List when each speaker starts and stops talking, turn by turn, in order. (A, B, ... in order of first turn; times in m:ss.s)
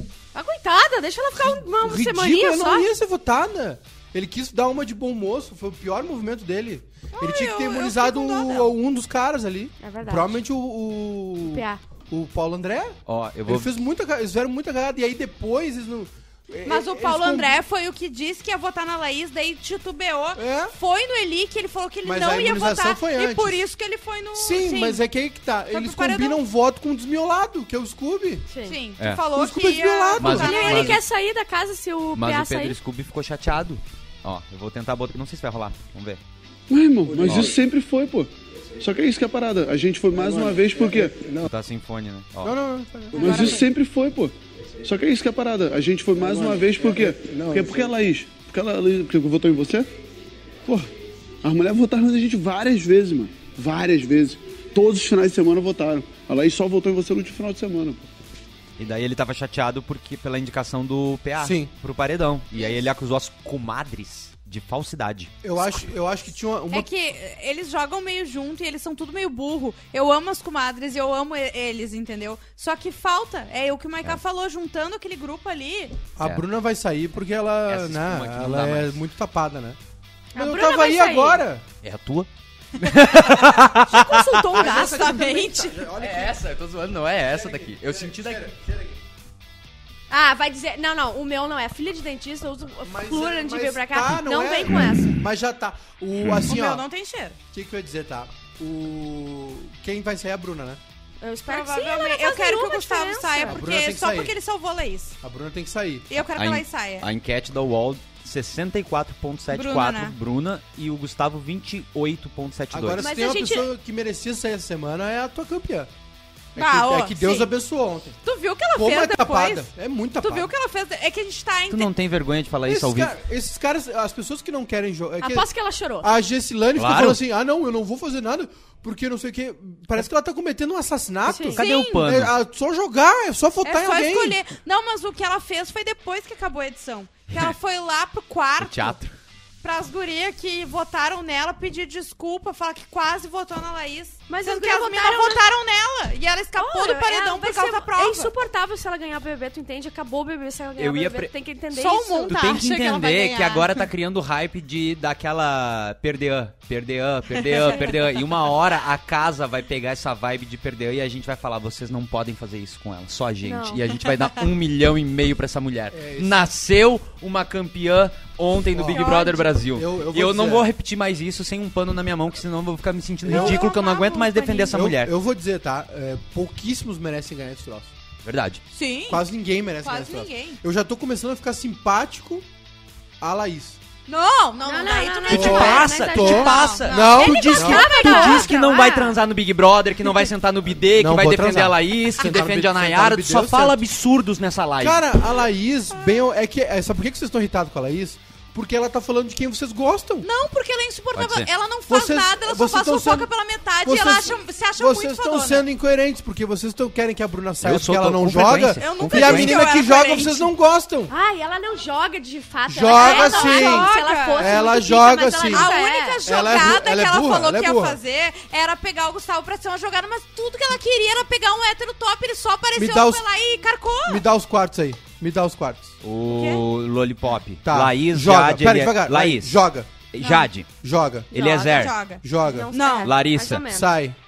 0:00.3-0:02.9 A
0:01.4-0:13.0 B
0:07.2-0:08.7 C
0:09.8-0:10.4 A
0:11.4-0:11.8 A
0:13.1-0:13.7 D
0:13.5-0:17.6 B
0:16.7-0:25.0 C
0:20.4-0:20.7 B
0:22.0-0:23.6 B
0:24.4-0:28.5 B
0:25.7-0:26.4 C
0:28.5-0:28.8 A
0:28.7-0:31.0 C
0:29.3-0:30.6 B
0:30.2-0:31.0 D
0:30.4-0:32.8 A
0:32.2-0:36.2 D
0:36.7-0:41.4 E
0:37.2-0:37.5 D
0:41.4-0:42.6 D
0:42.4-0:43.6 B
0:43.1-0:49.9 E
0:51.4-0:58.0 E
0:58.8-1:05.3 D
1:01.4-1:01.7 B
1:05.4-1:06.9 B
1:06.7-1:16.0 C
1:16.2-1:19.8 B
1:17.7-1:19.0 D
1:20.3-1:21.4 A
1:20.4-1:21.6 B
1:21.8-1:24.4 D
1:23.8-1:25.2 A
1:24.5-1:26.4 B
1:24.6-1:25.8 C
1:26.0-1:28.5 D
1:27.3-1:29.0 B
1:30.1-1:35.2 A
1:32.8-1:36.8 B
1:36.4-1:37.4 C
1:37.5-1:40.8 B
1:41.2-1:43.6 A
1:41.5-1:45.2 C
1:43.5-1:44.4 B
1:45.2-1:46.1 B
1:46.1-1:47.1 C
1:46.3-1:53.0 D
1:49.5-1:50.1 C
1:52.7-1:55.9 B
1:53.0-1:53.7 A
1:56.6-1:58.2 B
1:56.6-1:57.5 C
1:58.2-1:59.7 C
1:58.8-2:00.5 B
2:00.2-2:01.9 C
2:01.7-2:03.1 D
2:02.7-2:05.5 B
2:05.2-2:06.1 A
2:06.0-2:14.4 B
2:06.8-2:07.2 D
2:11.3-2:11.6 A
2:11.4-2:12.3 D
2:11.6-2:12.1 C
2:13.6-2:19.0 C
2:18.6-2:19.1 D
2:19.6-2:28.3 C
2:24.3-2:25.4 A
2:26.6-2:32.4 A
2:30.8-2:31.3 D
2:31.7-2:33.8 C
2:32.3-2:55.1 D
2:37.4-2:37.9 C
2:43.4-2:43.8 A
2:45.9-2:46.5 B
2:48.7-2:49.2 B
2:48.9-2:49.5 C
2:49.7-2:50.7 B
2:53.2-2:53.7 B
2:53.3-2:54.7 C
2:54.7-2:57.9 B
2:58.2-2:58.6 D
2:58.7-2:59.2 C
2:59.1-3:02.5 B
2:59.8-3:00.6 C
3:03.2-3:03.8 B
3:04.1-3:08.5 C
3:04.6-3:09.2 A
3:05.3-3:15.0 D
3:05.3-3:08.0 B
3:10.9-3:13.8 B
3:14.8-3:20.3 B
3:20.2-3:25.6 C
3:21.2-3:21.5 D
3:21.9-3:23.3 B
3:23.8-3:31.1 B
3:27.6-3:29.7 D
3:28.8-3:30.5 C
3:31.1-3:36.2 A
3:32.7-3:35.7 B
3:33.0-3:34.6 C
3:35.5-3:44.2 C
3:36.2-3:38.0 B
3:42.8-3:43.2 B
3:44.0-3:46.0 B
3:46.0-3:49.6 D
3:46.3-3:46.6 C
3:47.6-3:49.9 B
3:50.1-3:50.7 D
3:50.2-3:50.5 C
3:50.8-3:51.3 B
3:51.3-3:52.0 D
3:51.3-3:53.9 A
3:51.7-3:53.1 C
3:52.2-3:52.7 B
3:53.0-3:53.7 D
3:53.6-3:54.2 B